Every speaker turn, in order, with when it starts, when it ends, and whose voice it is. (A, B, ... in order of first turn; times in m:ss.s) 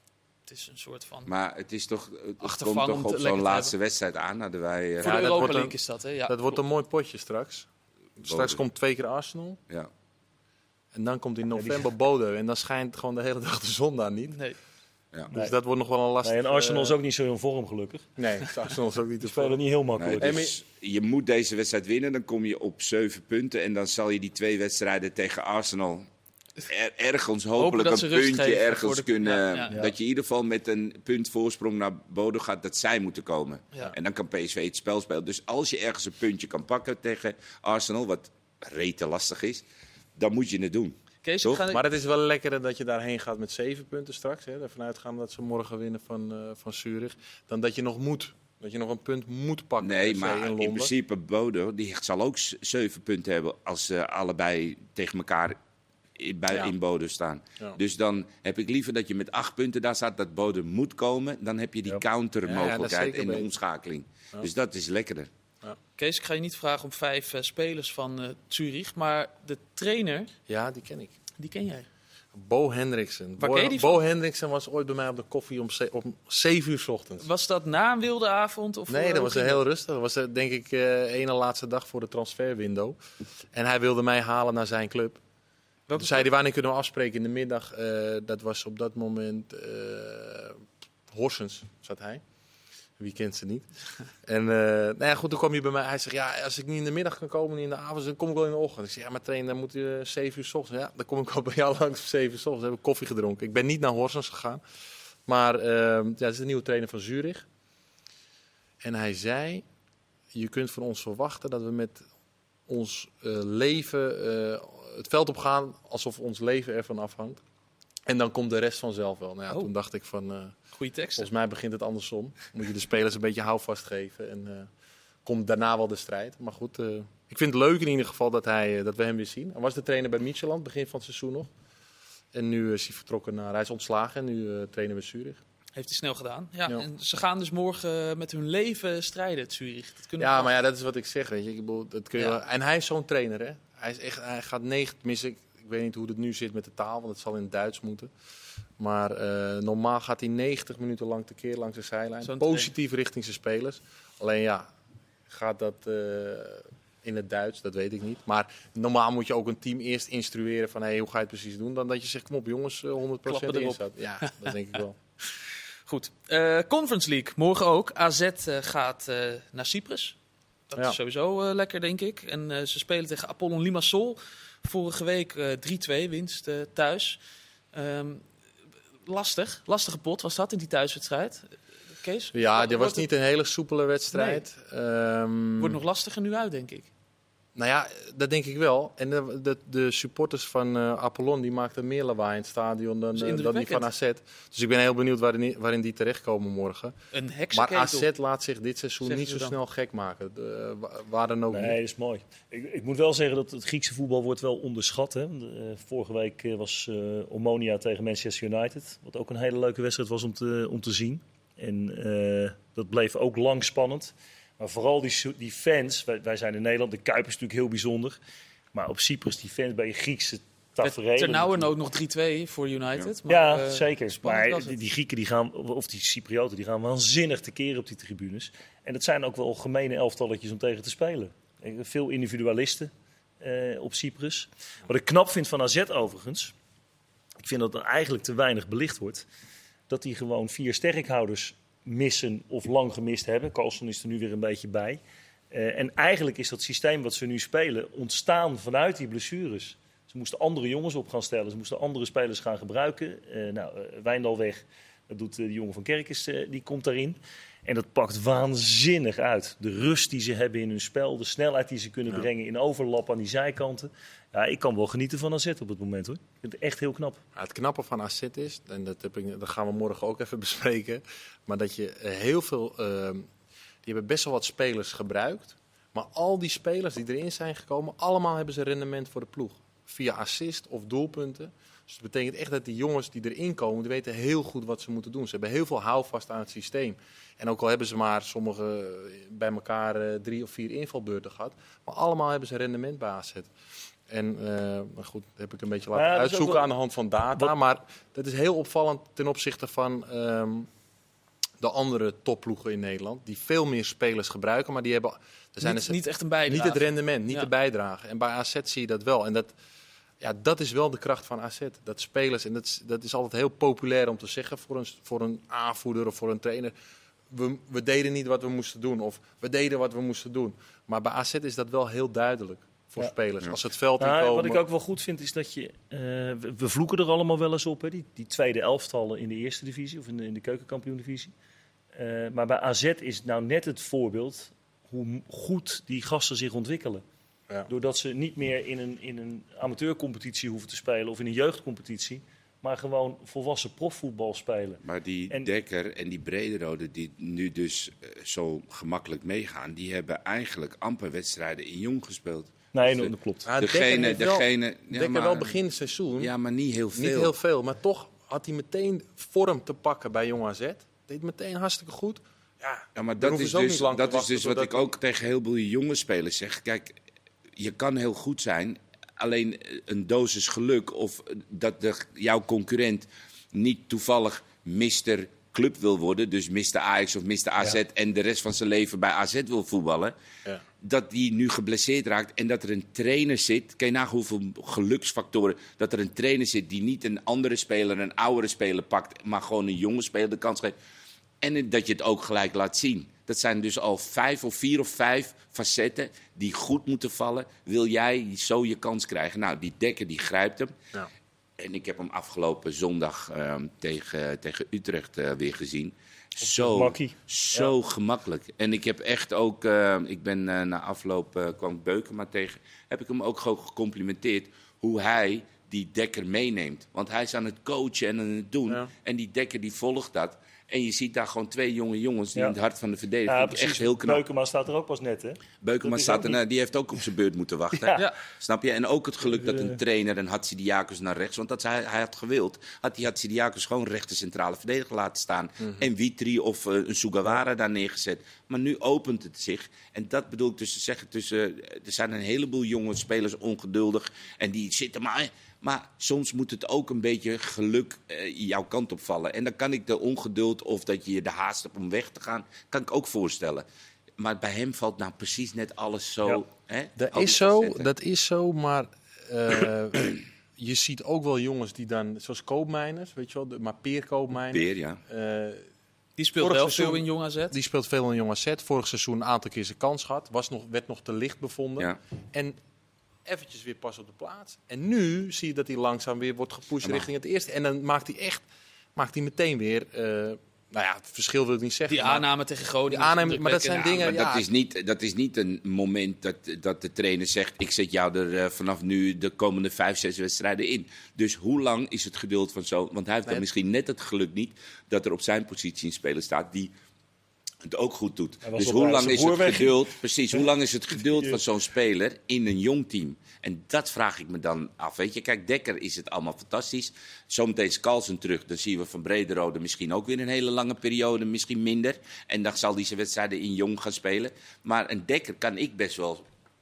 0:00.5-0:01.3 A
0:01.3-0:05.4 B
0:02.4-0:03.7 A
0:05.0-0:06.6 A
0:05.0-0:05.8 C
0:06.3-0:07.7 C
0:08.2-0:09.6 C
0:08.2-0:08.6 B
0:10.9-0:14.4 C
0:11.6-0:11.9 D
0:15.3-0:17.0 C
0:16.2-0:18.1 D
0:18.2-0:19.6 C
0:19.2-0:20.4 D
0:20.0-0:26.0 B
0:20.2-0:20.6 C
0:26.7-0:39.6 B
0:27.6-0:29.8 A
0:40.2-0:41.6 B
0:41.2-0:41.8 A
0:41.7-0:50.9 C
0:49.8-0:55.6 B
0:56.2-1:05.3 B
1:02.4-1:03.5 C
1:06.0-1:10.3 A
1:10.5-1:11.1 C
1:11.4-1:11.9 A
1:12.3-1:17.3 C
1:13.4-1:14.0 A
1:17.2-1:19.6 A
1:18.9-1:23.0 C
1:23.5-1:25.2 C
1:25.9-1:26.2 A
1:25.9-1:32.2 C
1:33.0-1:33.7 C
1:34.2-1:44.6 C
1:45.3-1:47.4 C
1:48.8-1:49.6 C
1:50.3-1:52.0 C
1:52.7-1:57.4 C
1:58.1-2:00.5 C
2:00.8-2:01.3 A
2:01.2-2:04.7 C
2:05.2-2:11.5 C
2:12.3-2:15.4 C
2:15.8-2:20.5 A
2:20.2-2:28.1 C
2:28.8-2:34.7 C
2:32.2-2:32.7 A
2:35.3-2:45.0 C
2:43.2-2:44.5 A
2:45.2-2:50.2 A
2:50.7-2:57.2 A
2:57.7-2:58.2 A
2:59.0-3:03.1 A
3:02.3-3:05.8 C
3:04.1-3:04.4 A
3:05.6-3:06.9 A
3:07.5-3:16.9 C
3:13.2-3:13.9 A
3:17.1-3:18.1 A
3:17.5-3:21.8 C
3:19.0-3:19.6 A
3:21.5-3:38.2 D
3:38.7-3:41.7 D
3:40.8-3:44.8 A
3:43.3-3:56.5 D
3:57.4-3:59.2 D
3:59.9-4:05.0 D
4:05.5-4:27.2 D
4:27.4-4:33.3 C
4:33.8-4:53.5 C
4:54.1-5:00.7 C
4:55.9-4:56.7 D
5:01.6-5:09.5 C
5:05.6-5:07.5 A
5:10.2-5:16.7 C
5:17.3-5:24.6 C
5:24.0-5:31.3 D
5:31.9-5:37.0 D
5:37.7-5:45.5 D
5:44.8-5:55.6 B
5:52.7-5:53.5 D
5:53.4-5:56.3 C
5:56.2-5:57.3 B
5:56.9-6:04.9 C
6:02.9-6:07.0 B
6:07.6-6:20.1 B
6:20.8-6:30.7 B
6:31.4-6:40.7 B
6:41.6-7:04.2 B
6:46.4-6:47.7 D
7:03.3-7:06.4 D
7:05.6-7:33.6 B
7:07.8-7:08.0 D
7:09.2-7:09.8 D
7:34.2-7:37.9 B
7:37.0-7:45.6 C
7:44.5-7:45.0 B
7:46.2-7:47.6 A
7:46.4-7:52.6 C
7:53.2-8:02.2 C
8:01.9-8:04.1 A
8:02.9-8:04.5 C
8:04.0-8:16.7 B
8:17.6-8:36.3 B
8:18.4-8:19.8 D
8:21.1-8:21.4 D